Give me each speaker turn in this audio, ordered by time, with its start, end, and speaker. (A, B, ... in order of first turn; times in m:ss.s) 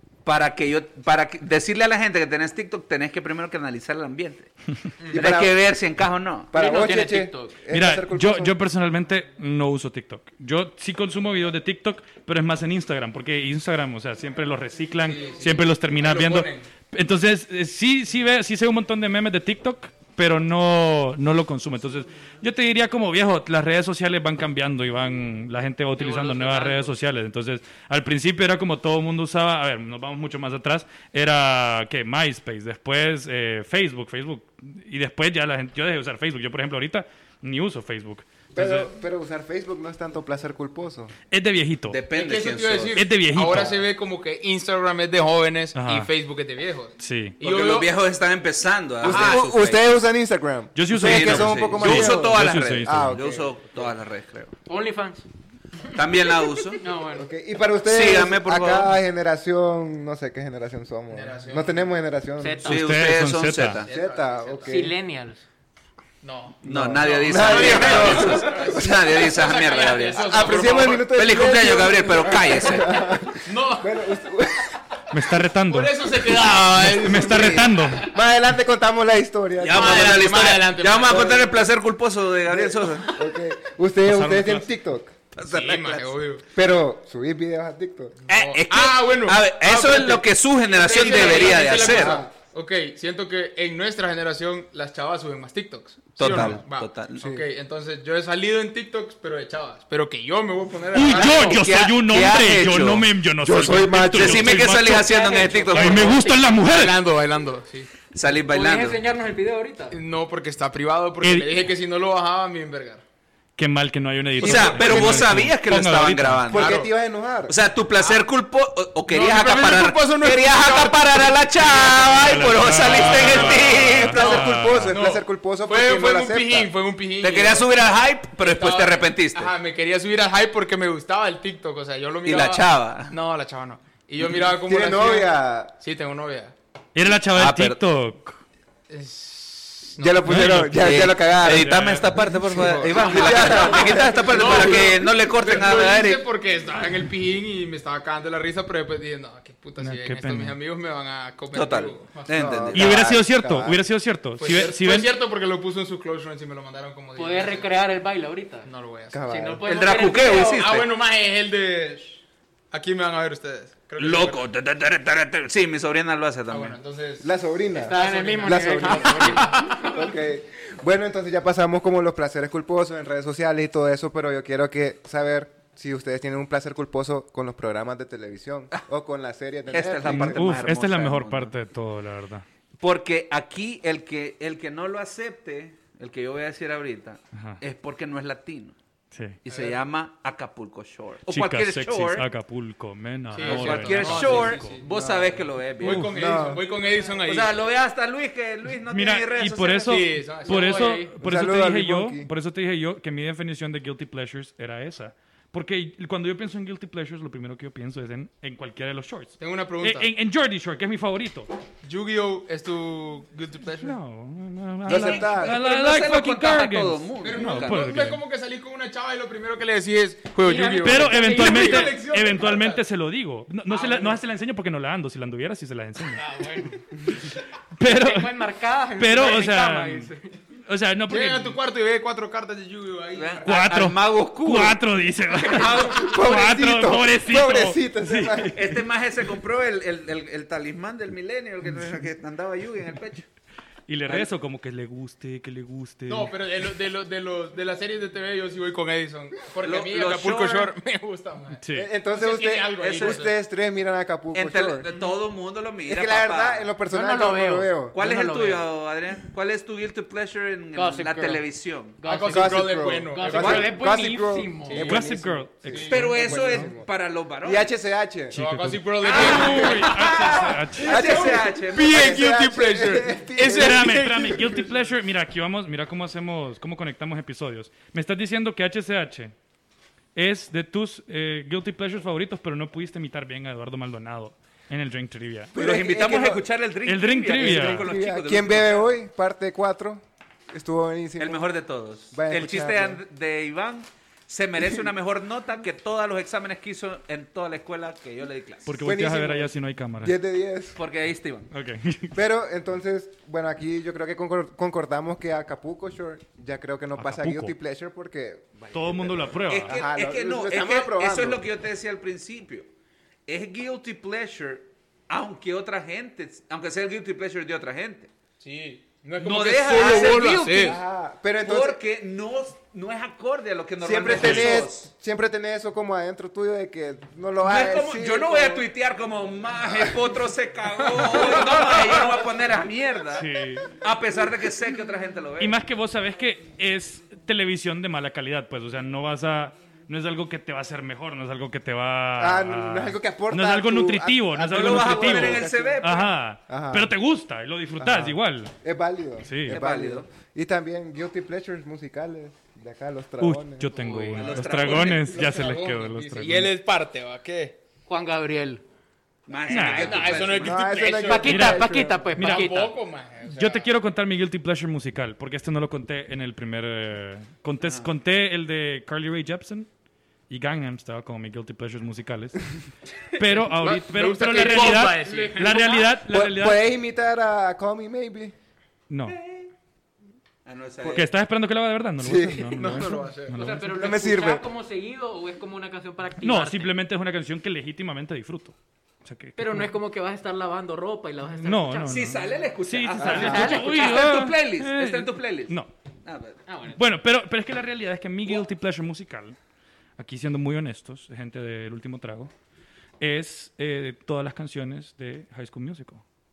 0:00.2-0:04.5 A
0:05.1-0:05.5 B
0:05.1-0:06.5 A
0:06.5-0:08.6 B
0:06.6-0:07.5 C
0:07.7-0:38.9 D
0:15.0-0:16.7 E
0:26.0-0:26.9 C
0:38.6-0:41.1 B
0:41.3-0:42.0 D
0:41.9-0:43.0 A
0:42.1-0:47.9 E
0:43.0-0:43.8 D
0:45.8-0:46.1 D
0:47.0-0:47.4 D
0:47.4-0:49.8 A
0:49.0-0:53.8 B
0:49.0-0:49.5 E
0:50.8-0:53.2 D
0:50.9-0:54.5 A
0:54.7-0:55.2 C
0:55.9-0:56.8 A
0:56.8-0:57.3 C
0:57.1-1:02.7 B
0:57.8-0:59.0 A
1:01.1-1:01.8 E
1:02.4-1:02.8 C
1:02.6-1:03.8 D
1:02.7-1:03.9 A
1:03.8-1:04.8 E
1:03.9-1:05.0 B
1:04.6-1:05.4 C
1:06.2-1:11.2 E
1:06.6-1:12.9 A
1:06.6-1:09.2 B
1:10.2-1:14.7 B
1:13.4-1:14.0 E
1:15.1-1:18.1 D
1:15.7-1:18.0 E
1:17.1-1:17.7 A
1:18.1-1:20.4 B
1:19.6-1:23.1 A
1:19.7-1:21.4 E
1:21.0-1:21.5 B
1:22.5-1:25.2 B
1:24.0-1:24.7 D
1:25.4-1:26.1 A
1:25.4-1:26.4 E
1:26.6-1:28.2 B
1:28.3-1:32.2 A
1:28.3-1:41.6 E
1:31.0-1:31.7 C
1:31.8-1:32.3 B
1:36.2-1:37.3 A
1:36.3-1:36.6 B
1:40.9-1:45.2 D
1:41.1-1:46.2 A
1:43.4-1:44.7 B
1:44.8-1:46.4 C
1:45.7-1:47.0 D
1:45.8-1:47.9 E
1:48.1-1:49.0 A
1:48.5-1:50.0 C
1:49.9-1:53.0 E
1:51.2-1:51.7 D
1:53.6-1:56.5 D
1:54.4-1:56.8 A
1:54.4-1:55.4 B
1:56.5-1:57.5 B
1:56.5-1:56.9 E
1:57.5-2:04.5 A
1:59.1-2:04.3 E
2:02.1-2:05.0 D
2:03.6-2:06.7 B
2:04.9-2:07.8 E
2:07.2-2:09.5 A
2:08.4-2:16.5 E
2:12.2-2:13.2 A
2:14.6-2:15.7 B
2:17.0-2:18.4 D
2:17.3-2:17.8 A
2:18.9-2:20.7 E
2:20.0-2:21.7 B
2:20.2-2:22.1 D
2:20.5-2:26.2 A
2:22.4-2:32.6 E
2:23.0-2:25.0 B
2:29.8-2:30.6 D
2:31.5-2:33.2 A
2:32.3-2:33.8 B
2:32.7-2:35.1 D
2:34.4-2:37.7 E
2:37.2-2:38.7 C
2:38.6-2:39.2 E
2:39.1-2:39.6 B
2:39.2-2:40.7 C
2:39.6-2:40.9 A
2:40.2-2:42.2 E
2:42.7-2:44.4 E
2:44.0-2:46.8 A
2:46.5-2:49.8 E
2:47.2-3:00.6 B
2:47.8-2:49.9 C
2:59.7-3:01.6 A
3:00.0-3:02.4 D
3:02.8-3:08.8 A
3:07.4-3:07.6 D
3:09.1-3:09.4 D
3:09.5-3:09.8 E
3:09.5-3:12.3 A
3:11.3-3:14.8 D
3:13.3-3:14.9 E
3:13.4-3:16.1 A
3:14.9-3:15.2 B
3:15.8-3:17.6 E
3:15.8-3:16.4 D
3:16.1-3:16.6 B
3:17.2-3:20.0 A
3:18.9-3:31.5 D
3:19.8-3:21.0 E
3:20.5-3:21.1 C
3:21.2-3:22.3 B
3:29.4-3:30.1 E
3:31.8-3:34.0 E
3:33.8-3:38.2 D
3:34.9-3:35.6 B
3:34.9-3:37.8 A
3:37.2-3:42.8 E
3:40.4-3:42.0 C
3:40.7-3:46.2 D
3:43.7-3:44.1 E
3:43.8-3:44.2 C
3:46.2-3:46.8 C
3:47.8-3:48.3 D
3:47.8-3:50.3 C
3:49.0-3:50.1 D
3:50.7-3:51.6 D
3:51.1-3:53.5 E
3:53.2-3:54.8 A
3:53.4-3:58.8 D
3:55.4-3:56.1 A
3:55.9-3:58.5 B
3:58.6-4:03.2 A
4:03.9-4:06.4 D
4:06.1-4:13.3 E
4:09.6-4:10.7 A
4:11.6-4:11.9 D
4:11.7-4:14.8 B
4:12.8-4:13.2 A
4:14.3-4:16.7 A
4:15.9-4:18.0 B
4:16.9-4:18.7 C
4:17.9-4:22.0 A
4:20.7-4:21.4 C
4:22.0-4:24.9 C
4:22.0-4:23.7 E
4:22.3-4:26.9 B
4:24.7-4:25.0 E
4:24.8-4:26.7 D
4:25.7-4:26.4 E
4:25.9-4:27.7 A
4:27.4-4:28.4 B
4:28.3-4:31.2 D
4:28.3-4:34.5 E
4:29.0-4:32.3 A
4:30.8-4:34.4 B
4:33.4-4:39.3 D
4:40.2-4:45.5 D
4:45.5-4:46.4 B
4:45.6-4:49.0 A
4:46.9-4:47.9 D
4:47.3-4:51.5 B
4:51.2-4:58.8 A
4:52.1-4:53.0 B
4:58.7-5:00.2 D
4:58.8-5:00.8 B
5:00.8-5:01.5 A
5:01.5-5:02.2 D
5:02.1-5:11.4 B
5:07.0-5:07.6 D
5:08.7-5:09.8 D
5:09.5-5:12.7 A
5:13.3-5:18.1 A
5:18.4-5:20.8 E
5:19.2-5:20.8 A
5:19.8-5:20.1 B
5:20.6-5:21.8 B
5:21.4-5:24.9 A
5:23.8-5:28.7 B
5:24.1-5:24.5 D
5:27.4-5:35.6 A
5:33.1-5:33.7 D
5:35.4-5:48.5 D
5:42.2-5:45.8 B
5:44.4-5:46.2 A
5:46.5-5:47.0 B
5:47.8-5:53.8 B
5:49.2-5:49.6 D
5:49.5-5:50.1 A
5:53.2-5:56.5 D
5:53.9-5:57.6 E
5:54.1-5:55.1 A
5:57.9-5:58.6 C
5:59.3-6:00.7 A
5:59.5-6:00.3 D
5:59.7-6:01.4 E
6:00.3-6:02.1 B
6:01.0-6:02.7 C
6:01.2-6:09.7 D
6:02.2-6:03.7 E
6:07.6-6:07.9 A
6:10.3-6:12.6 D
6:13.2-6:16.7 D
6:13.4-6:15.8 E
6:14.4-6:15.9 C
6:16.1-6:18.4 B
6:18.9-6:19.2 D
6:19.1-6:19.5 A
6:20.4-6:21.1 A
6:20.8-6:21.0 B
6:20.9-6:23.9 D
6:22.0-6:22.7 B
6:22.5-6:23.4 E
6:23.3-6:26.7 C
6:23.7-6:24.4 B
6:26.2-6:29.7 D
6:29.4-6:32.2 C
6:31.4-6:35.7 D
6:31.9-6:36.4 A
6:33.0-6:33.9 C
6:36.5-6:36.8 C
6:36.7-6:39.4 D
6:40.0-6:42.3 D
6:43.0-6:46.0 D